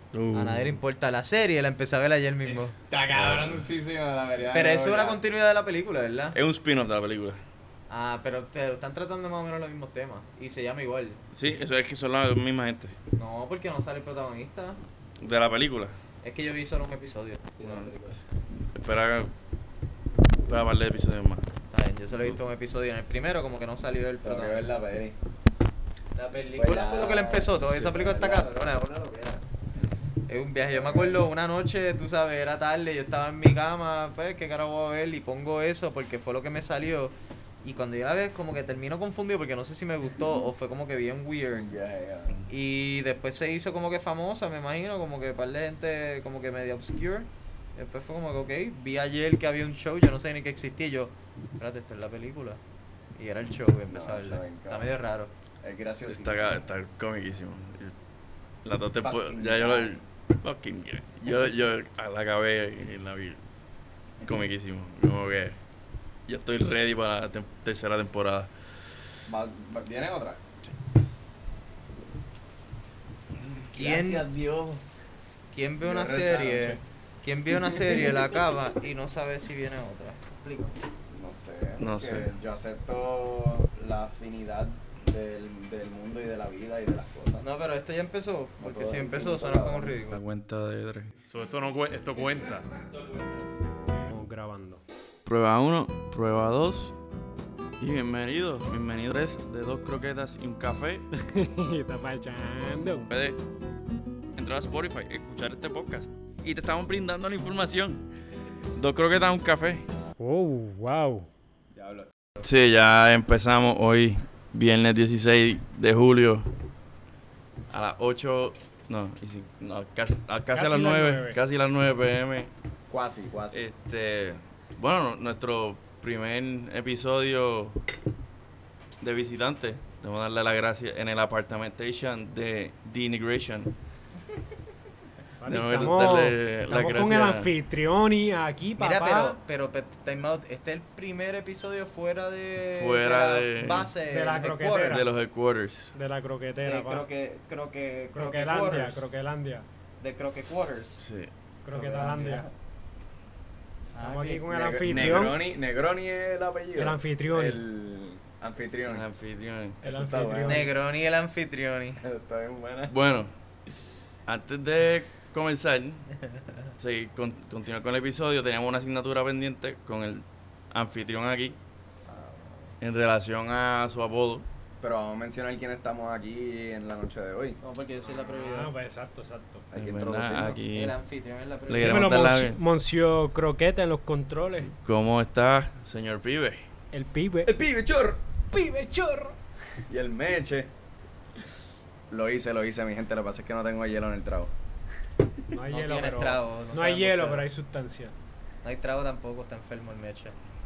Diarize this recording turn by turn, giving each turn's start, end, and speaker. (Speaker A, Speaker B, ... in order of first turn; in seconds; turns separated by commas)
Speaker A: 0.1-0.8, Speaker B: 0.3-2.7, Speaker C: 2.5-5.2, Speaker A: 3.1-3.6, Speaker B: 4.5-6.4, Speaker A: 6.3-7.4, Speaker B: 7.9-11.2, Speaker A: 11.3-12.9, Speaker B: 13.2-14.8, Speaker A: 15.2-15.9, Speaker B: 16.2-18.1, Speaker A: 17.6-17.9, Speaker A: 18.5-19.3, Speaker A: 20.4-21.5, Speaker B: 21.7-24.6, Speaker C: 24.2-25.2, Speaker B: 26.1-29.4, Speaker C: 26.5-29.3, Speaker B: 30.3-41.7, Speaker C: 30.7-31.2, Speaker C: 41.6-42.4, Speaker B: 42.5-52.6, Speaker B: 53.1-55.3, Speaker C: 53.9-54.9, Speaker C: 55.6-56.6, Speaker A: 56.1-57.9, Speaker A: 58.6-63.4, Speaker C: 58.8-60.0, Speaker A: 64.2-65.5, Speaker A: 66.3-68.5, Speaker C: 69.3-70.4, Speaker C: 70.9-71.5, Speaker C: 73.4-74.8, Speaker B: 73.7-74.3, Speaker B: 75.5-80.7, Speaker C: 75.8-76.8, Speaker C: 77.5-78.2, Speaker C: 81.1-87.4, Speaker A: 81.8-82.3, Speaker B: 87.4-90.2, Speaker C: 88.6-90.0, Speaker A: 90.1-93.6, Speaker D: 94.0-94.8, Speaker A: 95.2-96.9, Speaker A: 97.8-101.1, Speaker D: 101.2-103.1, Speaker A: 103.1-103.4, Speaker A: 104.3-108.1, Speaker A: 108.8-109.8, Speaker D: 110.2-111.3, Speaker C: 111.7-112.1, Speaker A: 112.4-116.5, Speaker A: 117.7-122.5, Speaker D: 120.5-121.4, Speaker C: 122.9-123.6, Speaker A: 123.5-127.8, Speaker A: 129.0-133.7, Speaker D: 135.4-139.4, Speaker A: 135.4-137.5, Speaker B: 138.8-145.2, Speaker A: 142.7-143.9, Speaker D: 144.1-145.2, Speaker A: 144.8-145.9, Speaker D: 145.9-147.0, Speaker B: 146.6-149.1, Speaker D: 148.1-149.7, Speaker B: 150.0-151.0, Speaker A: 151.0-151.3, Speaker D: 151.6-152.5, Speaker C: 151.7-152.5, Speaker B: 153.9-155.1, Speaker D: 154.0-155.4, Speaker C: 154.4-159.1, Speaker D: 156.8-157.6, Speaker A: 158.9-159.8, Speaker D: 159.8-160.7, Speaker C: 159.8-160.7, Speaker B: 160.4-162.0, Speaker C: 162.0-162.9, Speaker A: 162.9-163.3, Speaker A: 164.3-166.1, Speaker A: 166.8-171.6, Speaker B: 172.1-172.7, Speaker A: 172.8-174.4, Speaker C: 174.8-177.6, Speaker B: 177.6-178.7, Speaker D: 178.0-179.7, Speaker C: 179.7-180.6, Speaker A: 179.7-180.9, Speaker B: 180.7-182.2, Speaker A: 181.7-182.6, Speaker D: 181.8-184.7, Speaker A: 184.6-186.7, Speaker D: 186.9-187.5, Speaker C: 187.4-188.2, Speaker D: 188.5-189.4, Speaker C: 189.9-190.7, Speaker C: 192.1-194.5, Speaker D: 195.5-198.1, Speaker B: 195.7-197.5, Speaker B: 198.6-200.3